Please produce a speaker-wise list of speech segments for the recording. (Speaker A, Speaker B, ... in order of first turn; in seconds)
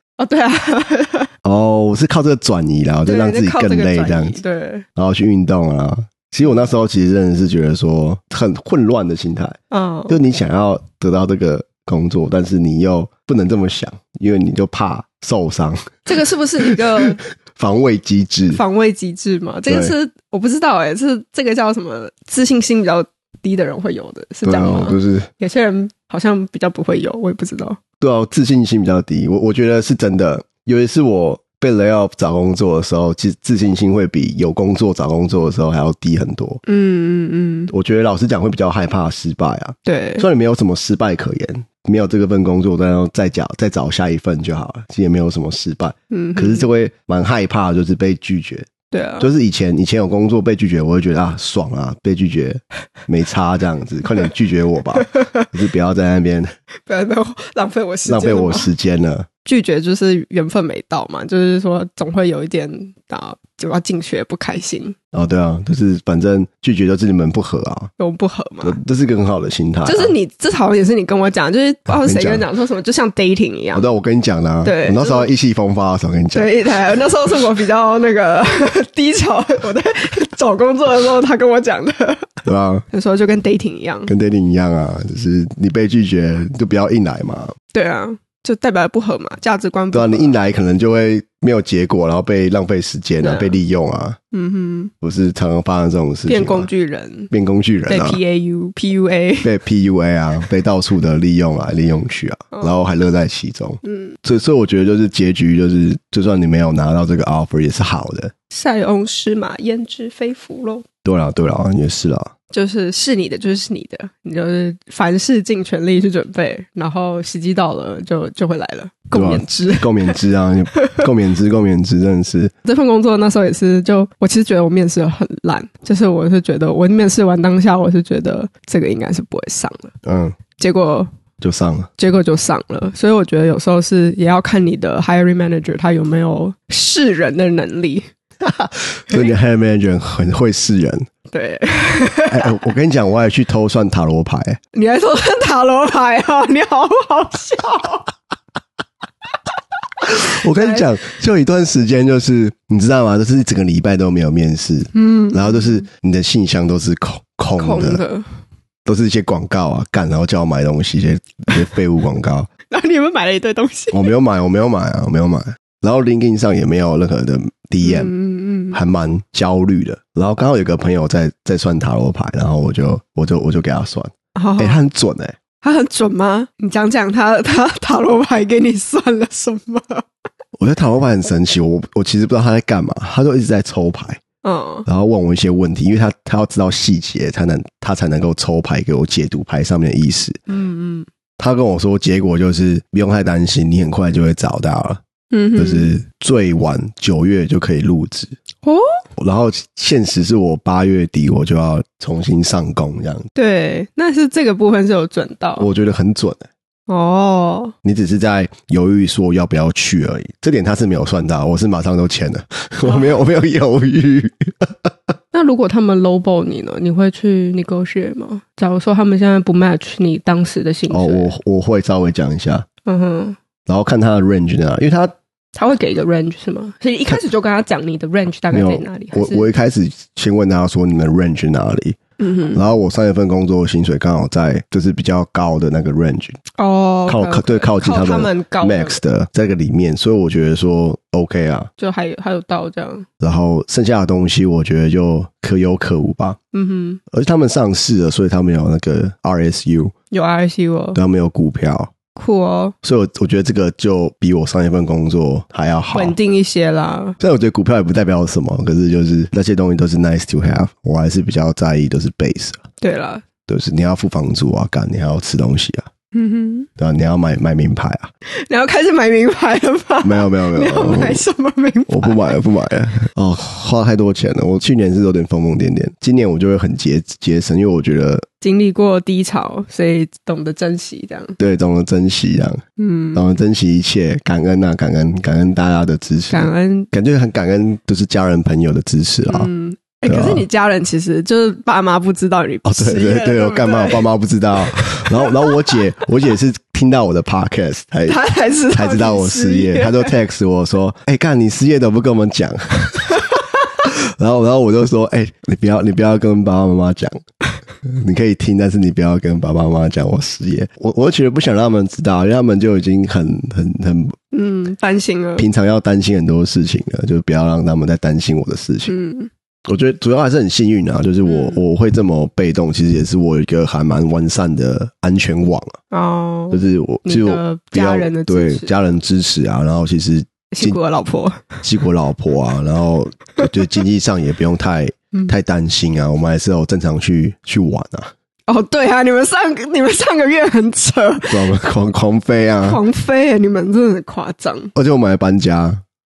Speaker A: 0.2-1.3, 3.0-4.8, 9.7-10.2, 16.1-17.2, 18.5-27.8, 36.6-37.7, 39.9-40.2, 46.1-46.7, 48.9-49.3, 55.1-55.5, 56.9-58.7, 59.4-65.0, 68.0-68.8, 69.8-73.8, 74.6-75.3, 76.3-84.1, 87.7-90.3, 93.2-93.6, 94.3-94.9, 96.3-97.3, 97.9-99.5, 103.8-104.1, 108.5-110.8, 112.5-120.2, 122.6-129.9, 130.6-131.1, 132.0-138.1, 141.3-142.6, 144.7-148.1, 150.5-150.9, 154.9-155.7, 157.6-158.3, 162.7-164.1, 167.8-168.8, 174.3-174.8, 175.6-180.1, 184.4-184.9, 190.5-191.1, 195.3-195.9, 198.6-198.9, 203.3-205.7, 206.9-207.7, 212.8-213.1, 215.3-221.3, 222.8-223.4, 225.5-229.5, 232.2-232.6, 236.6-239.0, 241.8-243.1, 246.5-247.0, 250.1-251.0, 252.1-252.7, 255.9-257.2, 262.8-263.2, 266.1-266.7, 268.3-272.4, 278.4-281.4, 282.8-283.2, 286.3-286.9, 289.3-294.1, 294.6-295.8, 298.1-300.1, 303.1-303.4, 314.3-315.4, 318.9-319.3, 321.2-321.6, 325.9-328.7, 330.5-331.6, 338.5-341.5, 342.6-344.7
Speaker B: 1.4-4.4, 5.0-9.6, 10.1-16.0, 16.6-18.6, 19.7-19.9, 24.4-25.3, 28.0-36.6, 37.7-48.7, 49.2-56.5, 58.0-59.3, 65.1-67.9, 68.6-70.1, 71.9-72.5, 73.7-76.5, 82.4-82.8, 84.1-87.5, 89.9-94.2, 95.0-96.7, 97.3-98.2, 99.4-108.3, 111.0-112.3, 119.1-122.5, 130.0-130.4, 131.4-131.9, 138.4-141.1, 142.3-144.6, 150.0-158.0, 158.8-162.5, 163.9-168.1, 168.7-175.3, 180.6-184.2, 184.8-190.4, 191.4-195.0, 195.6-198.3, 199.2-203.2, 205.6-206.5, 207.8-214.9, 220.9-222.7, 223.7-225.1, 228.5-232.0, 232.5-236.4, 237.1-241.7, 243.2-246.4, 247.1-249.9, 250.9-251.9, 252.8-256.1, 257.2-262.6, 263.5-265.9, 266.8-268.1, 270.0-271.2, 271.9-278.2, 281.4-282.6, 283.1-289.5, 290.1-290.4, 292.6-307.2, 307.8-314.1, 315.4-318.9, 319.6-325.8, 326.5-330.8, 331.6-338.1, 341.3-342.8, 344.7-345.8